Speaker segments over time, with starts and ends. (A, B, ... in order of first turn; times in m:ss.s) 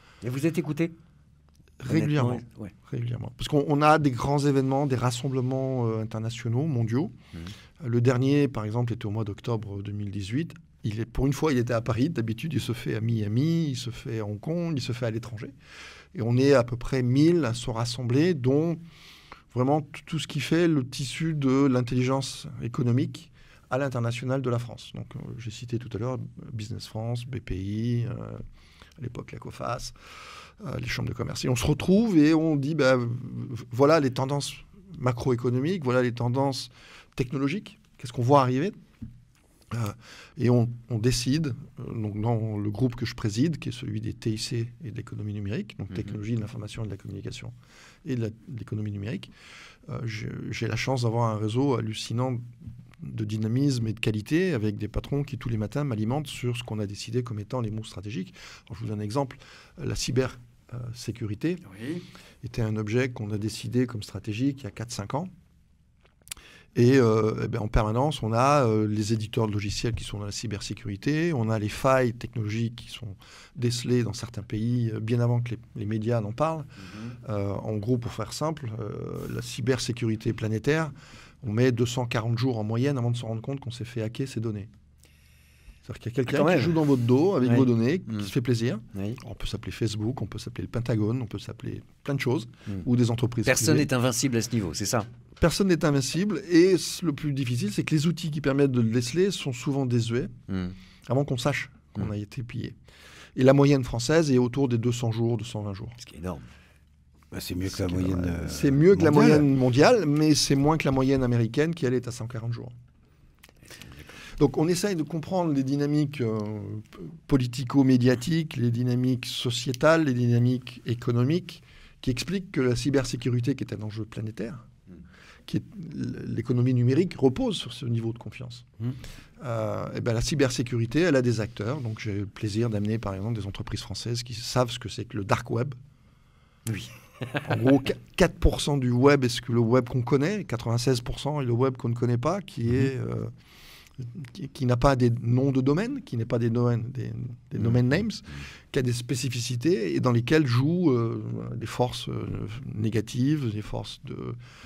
0:00.2-0:00.9 A
0:01.8-0:07.1 B
0:01.9-0:02.7 A
0:07.8-0:15.5 B
0:16.2-0:18.8 B
0:19.5-0:28.4 B
0:29.0-0:30.0 B
0:30.6-0:38.8 B
0:39.7-0:47.5 B
0:45.9-0:46.2 A
0:48.0-0:49.3 B
0:49.9-0:52.4 B
0:53.0-1:01.6 B
1:01.7-1:02.0 A
1:02.4-1:05.3 B
1:06.8-1:16.7 B
1:16.8-1:17.2 A
1:17.2-1:24.7 B
1:25.8-1:33.9 B
1:26.3-1:26.8 A
1:27.4-1:28.3 A
1:28.9-1:29.2 A
1:33.4-1:35.1 A
1:35.4-1:40.3 B
1:40.5-1:40.8 A
1:41.1-1:42.8 B
1:43.4-1:46.0 B
1:46.0-1:46.4 A
1:47.3-1:49.5 C
1:47.7-1:52.7 B
1:53.9-1:54.2 A
1:54.4-2:04.6 B
2:05.5-2:08.7 B
2:09.4-2:15.8 B
2:16.7-2:17.4 A
2:17.4-2:23.3 B
2:24.1-2:34.4 B
2:27.6-2:27.8 A